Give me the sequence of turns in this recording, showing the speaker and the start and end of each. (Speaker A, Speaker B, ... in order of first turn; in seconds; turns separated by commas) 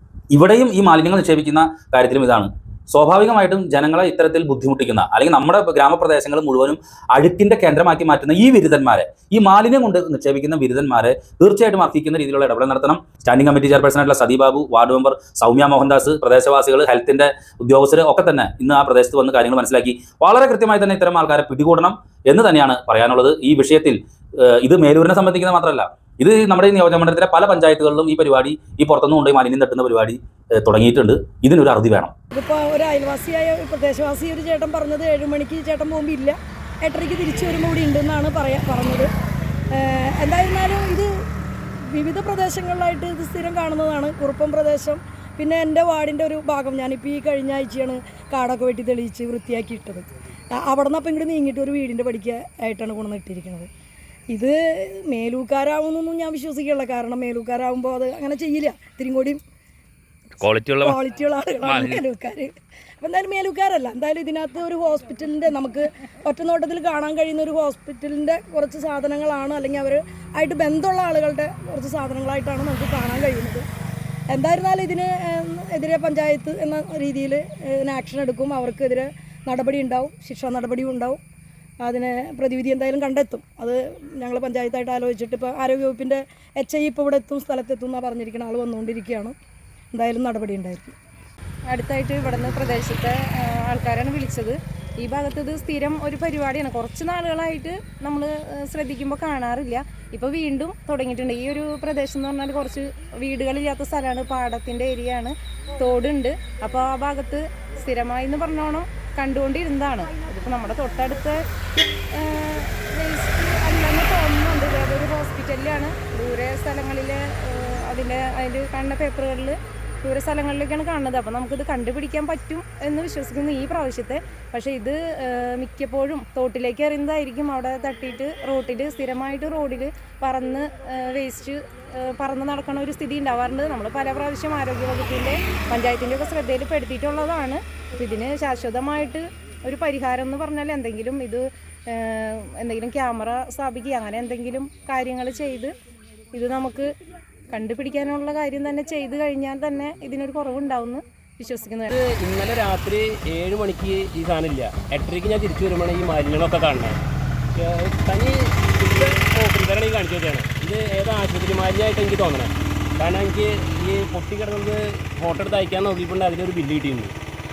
Speaker A: 0.3-32.1, Speaker B: 32.3-39.1, Speaker B: 39.7-41.1, Speaker B: 41.9-53.7, Speaker B: 54.3-59.4, Speaker A: 60.4-60.9, Speaker B: 60.8-73.6, Speaker A: 61.6-62.0, Speaker B: 74.3-81.2, Speaker B: 81.8-89.3, Speaker B: 89.9-90.9, Speaker C: 91.7-111.4, Speaker C: 112.1-145.8, Speaker C: 146.3-146.9, Speaker C: 147.5-151.9, Speaker D: 151.9-157.0, Speaker D: 157.6-167.1